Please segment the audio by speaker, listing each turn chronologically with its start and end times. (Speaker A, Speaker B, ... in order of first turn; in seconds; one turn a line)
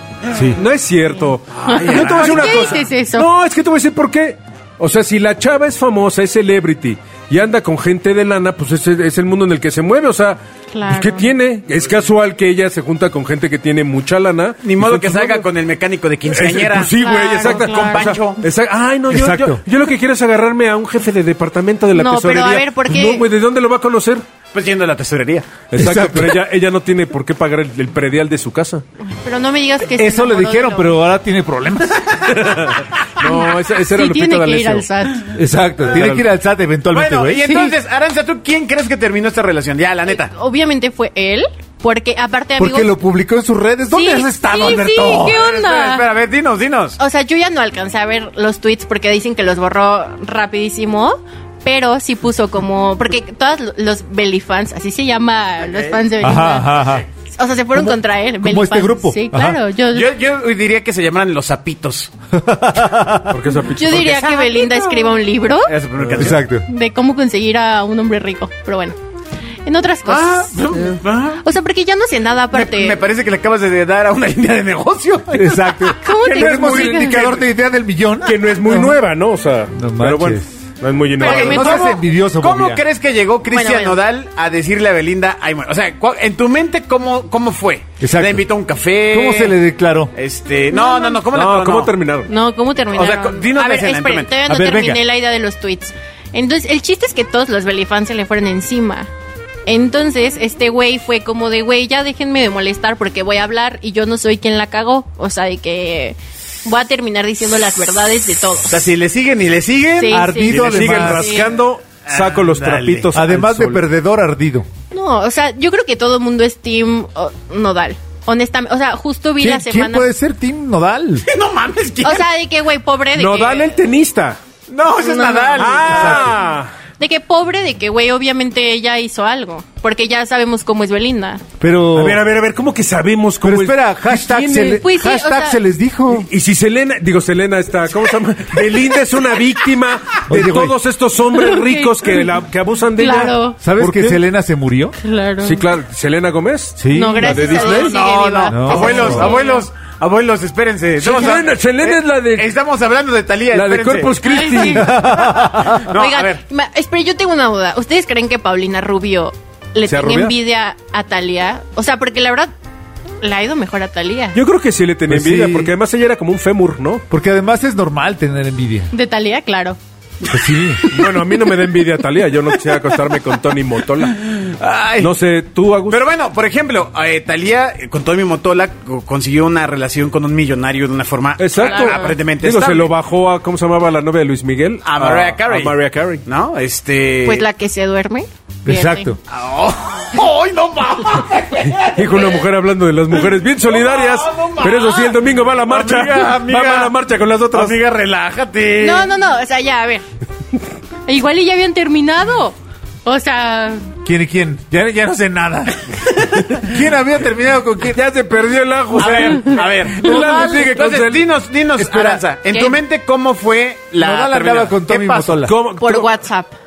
Speaker A: 0.3-0.6
Speaker B: 0.5-15.5
Speaker C: 1.5-2.8
Speaker D: 1.6-3.3
Speaker D: 10.7-11.3
Speaker C: 14.6-18.4
Speaker B: 16.3-24.2
Speaker D: 17.0-18.2
Speaker A: 19.1-19.6
Speaker D: 21.9-23.2
Speaker C: 24.5-25.6
Speaker B: 25.7-28.8
Speaker A: 25.7-26.4
Speaker D: 29.0-31.0
Speaker A: 29.9-32.3
Speaker B: 32.3-34.9
Speaker D: 33.2-35.3
Speaker A: 35.3-37.7
Speaker B: 35.9-36.3
Speaker C: 36.9-40.3
Speaker D: 40.1-42.9
Speaker A: 42.6-45.4
Speaker D: 43.9-46.1
Speaker C: 45.2-47.0
Speaker D: 47.0-56.8
Speaker C: 55.6-56.0
Speaker A: 56.2-57.0
Speaker D: 57.4-60.1
Speaker A: 57.7-59.6
Speaker C: 59.9-62.1
Speaker A: 62.3-63.4
Speaker B: 63.3-64.2
Speaker D: 63.7-65.7
Speaker C: 63.9-66.4
Speaker B: 66.0-66.3
Speaker A: 66.2-66.6
Speaker D: 66.6-69.0
Speaker D: 69.7-70.5
Speaker C: 70.0-71.4
Speaker D: 71.4-73.0
Speaker C: 72.5-77.4
Speaker A: 75.3-79.0
Speaker D: 75.9-77.2
Speaker B: 76.7-77.2
Speaker B: 78.2-81.8
Speaker A: 79.7-80.5
Speaker D: 81.2-82.0
Speaker A: 81.2-82.8
Speaker C: 81.2-89.6
Speaker D: 83.5-84.0
Speaker A: 88.0-88.5
Speaker A: 89.1-90.1
Speaker C: 90.1-91.9
Speaker D: 90.7-91.2
Speaker B: 91.3-92.3
Speaker D: 92.3-99.1
Speaker C: 92.9-94.3
Speaker A: 94.5-95.0
Speaker D: 99.7-108.9
Speaker C: 108.7-111.2
Speaker D: 110.0-111.5
Speaker A: 110.1-111.4
Speaker B: 110.6-113.8
Speaker C: 112.1-113.1
Speaker A: 113.1-114.7
Speaker D: 114.9-120.1
Speaker A: 119.4-121.2
Speaker C: 121.3-122.2
Speaker D: 122.0-123.8
Speaker B: 123.2-124.4
Speaker C: 124.7-126.3
Speaker D: 125.0-126.0
Speaker B: 125.5-126.7
Speaker A: 125.8-126.3
Speaker D: 127.0-131.4
Speaker A: 131.6-132.2
Speaker B: 131.9-134.8
Speaker A: 133.4-136.3
Speaker D: 134.6-135.6
Speaker B: 136.1-144.2
Speaker A: 140.3-140.8
Speaker D: 141.3-142.3
Speaker D: 142.9-143.6
Speaker A: 143.6-144.9
Speaker D: 145.0-145.6
Speaker B: 145.4-147.9
Speaker A: 146.8-147.4
Speaker D: 146.9-149.7
Speaker C: 147.2-154.2
Speaker A: 148.5-149.3
Speaker B: 151.0-152.5
Speaker B: 153.5-154.9
Speaker D: 154.2-162.5
Speaker A: 154.6-155.9
Speaker C: 155.7-156.4
Speaker B: 159.8-160.3
Speaker D: 163.2-164.4
Speaker B: 164.3-167.0
Speaker A: 165.1-165.7
Speaker A: 167.1-168.9
Speaker D: 168.9-169.8
Speaker A: 170.3-170.8
Speaker B: 170.9-174.3
Speaker C: 174.2-175.1
Speaker B: 175.0-176.0
Speaker C: 175.9-182.9
Speaker B: 181.4-186.2
Speaker D: 181.6-182.1
Speaker C: 184.8-187.4
Speaker D: 187.2-189.1
Speaker A: 188.6-189.2
Speaker C: 189.3-192.4
Speaker B: 191.7-197.8
Speaker C: 193.6-196.9
Speaker C: 197.5-199.1
Speaker D: 198.8-200.0
Speaker D: 201.1-203.9
Speaker A: 204.0-205.8
Speaker A: 206.6-208.0
Speaker B: 207.8-211.3
Speaker C: 209.0-215.4
Speaker D: 209.1-210.6
Speaker A: 211.8-212.2
Speaker D: 212.5-212.8
Speaker A: 214.0-215.6
Speaker B: 215.4-216.1
Speaker D: 215.8-216.6